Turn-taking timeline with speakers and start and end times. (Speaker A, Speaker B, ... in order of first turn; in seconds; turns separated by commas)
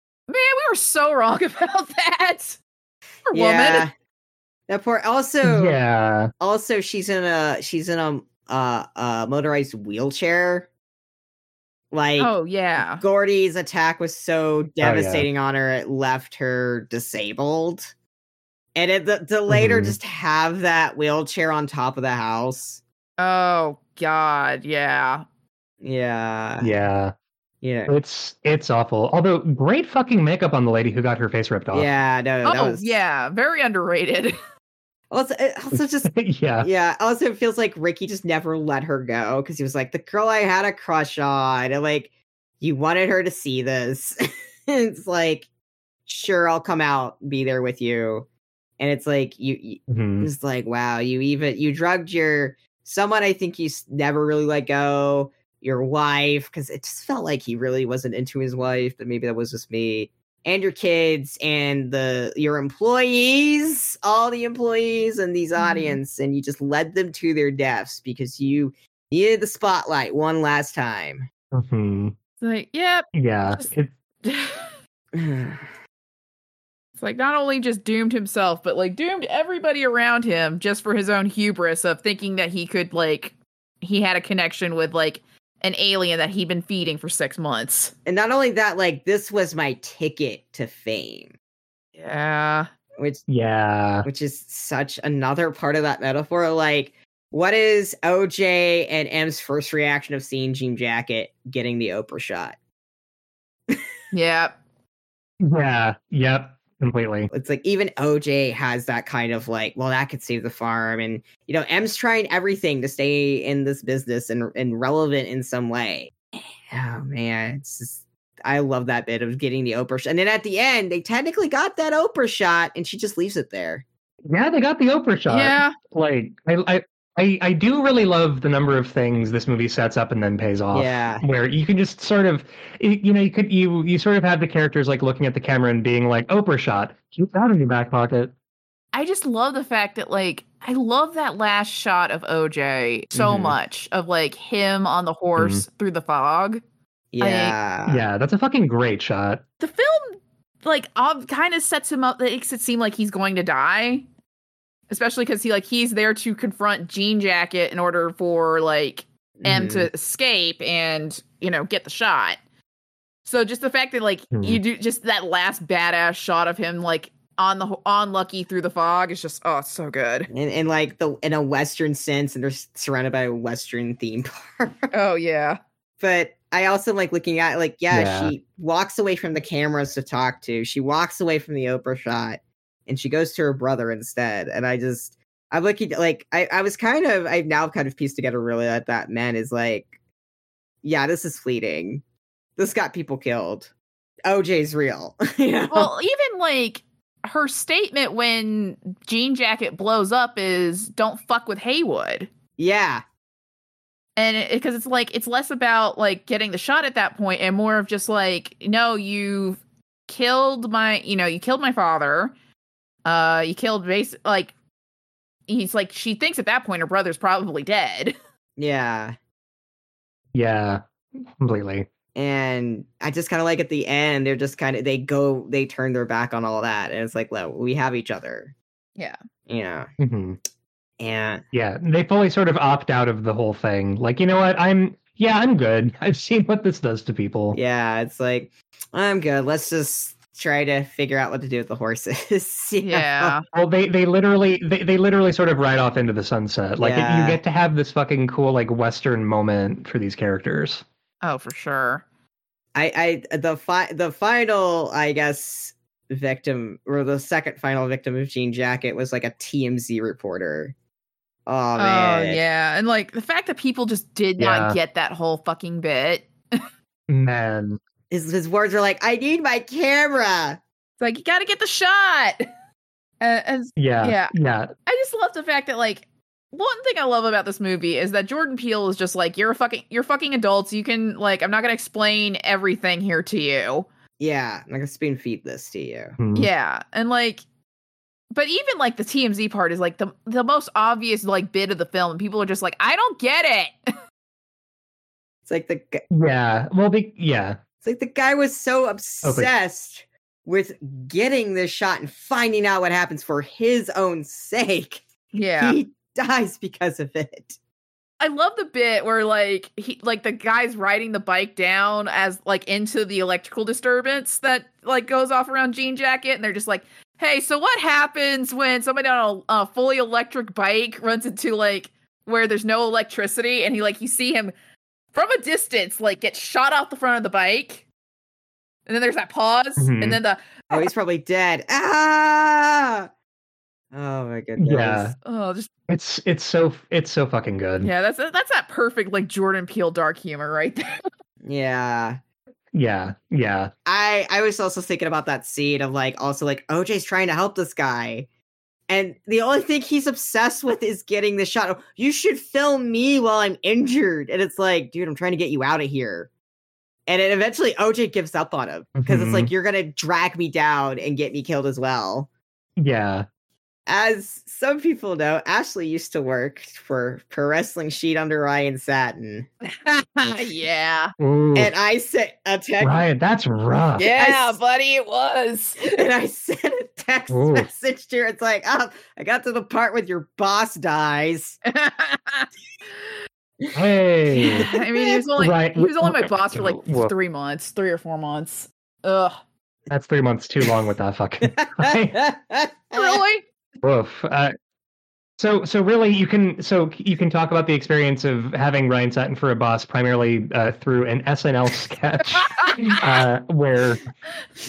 Speaker A: 0.3-2.6, Speaker A: 3.3-3.9, Speaker B: 3.3-3.9, Speaker B: 4.7-5.8, Speaker C: 5.4-6.3, Speaker B: 6.4-10.7, Speaker B: 11.9-12.3, Speaker A: 12.2-13.0, Speaker B: 12.9-17.9, Speaker C: 14.8-15.3, Speaker B: 18.7-22.8, Speaker C: 19.5-19.9, Speaker A: 23.2-25.2, Speaker B: 25.8-26.7, Speaker C: 26.6-27.1, Speaker B: 27.6-27.9, Speaker C: 27.9-31.9, Speaker B: 31.7-32.9, Speaker A: 32.4-34.4, Speaker B: 35.1-45.5, Speaker C: 35.7-36.7, Speaker B: 46.1-48.3, Speaker B: 48.8-71.3, Speaker C: 49.9-50.3, Speaker A: 65.6-66.0, Speaker C: 71.5-72.1, Speaker A: 72.4-73.7, Speaker C: 73.1-73.9, Speaker A: 74.2-74.7, Speaker B: 75.1-75.7, Speaker A: 77.0-87.9, Speaker B: 88.0-91.3, Speaker A: 92.0-92.7, Speaker B: 93.0-93.2, Speaker C: 93.3-94.0, Speaker B: 94.0-102.5, Speaker A: 104.1-104.5, Speaker C: 105.4-107.3, Speaker B: 107.3-116.1, Speaker B: 116.7-123.8, Speaker C: 124.3-138.3, Speaker A: 125.3-125.7, Speaker B: 130.7-131.2, Speaker A: 138.9-146.6, Speaker B: 143.1-143.6, Speaker C: 145.4-145.6, Speaker B: 147.1-148.0, Speaker A: 147.2-147.6, Speaker C: 147.9-149.4, Speaker A: 149.6-154.0, Speaker A: 154.9-162.4, Speaker B: 159.4-159.9, Speaker A: 163.2-170.3, Speaker C: 164.3-164.6, Speaker B: 170.3-174.9, Speaker A: 174.9-175.6, Speaker B: 176.0-189.9, Speaker C: 177.9-178.3, Speaker B: 190.8-192.0, Speaker B: 192.6-193.7, Speaker B: 194.2-195.9, Speaker A: 195.7-202.3, Speaker B: 202.6-203.0, Speaker A: 204.2-212.3, Speaker A: 213.0-214.5, Speaker A: 215.5-218.1, Speaker B: 218.6-219.2, Speaker C: 220.3-221.9, Speaker B: 222.1-228.5, Speaker B: 229.5-229.9, Speaker C: 230.0-230.4, Speaker B: 231.0-231.4, Speaker C: 231.5-237.6, Speaker B: 237.5-243.3, Speaker A: 242.8-243.4, Speaker C: 243.5-250.8, Speaker B: 246.8-247.4, Speaker A: 251.2-252.0, Speaker B: 252.7-260.7, Speaker B: 261.4-262.4, Speaker A: 261.8-266.6, Speaker C: 264.4-264.8, Speaker C: 267.1-267.8, Speaker B: 268.1-270.6, Speaker A: 271.0-272.4, Speaker A: 273.2-274.3, Speaker C: 273.8-274.7, Speaker A: 274.9-283.9, Speaker B: 284.2-286.2, Speaker C: 286.2-286.5, Speaker A: 286.3-287.4, Speaker A: 288.3-293.8, Speaker B: 295.4-296.0, Speaker C: 296.1-297.6, Speaker B: 297.8-307.6, Speaker C: 299.2-299.5, Speaker A: 305.3-305.8, Speaker A: 308.2-324.5, Speaker A: 325.1-327.8, Speaker A: 328.9-330.9, Speaker C: 329.8-330.2, Speaker B: 330.7-333.1, Speaker B: 333.9-335.1, Speaker C: 334.6-335.1, Speaker A: 335.2-335.7, Speaker C: 335.9-337.9, Speaker A: 337.8-341.1, Speaker B: 341.4-342.2, Speaker C: 342.7-343.7, Speaker B: 343.9-348.3, Speaker B: 348.9-356.3, Speaker B: 357.1-362.3, Speaker C: 359.0-359.5, Speaker C: 362.8-363.2, Speaker B: 363.9-369.5, Speaker A: 369.9-371.1, Speaker C: 371.2-371.7, Speaker B: 371.5-373.0, Speaker C: 372.8-374.1, Speaker A: 374.0-375.9, Speaker B: 374.1-374.6, Speaker B: 375.8-381.6, Speaker C: 377.3-377.7, Speaker A: 381.7-383.1, Speaker C: 383.7-384.7, Speaker A: 384.3-389.4, Speaker C: 385.4-387.1, Speaker C: 389.9-392.2, Speaker B: 391.6-393.2, Speaker A: 392.9-393.4, Speaker C: 393.8-394.5, Speaker C: 395.4-404.0, Speaker A: 402.3-403.0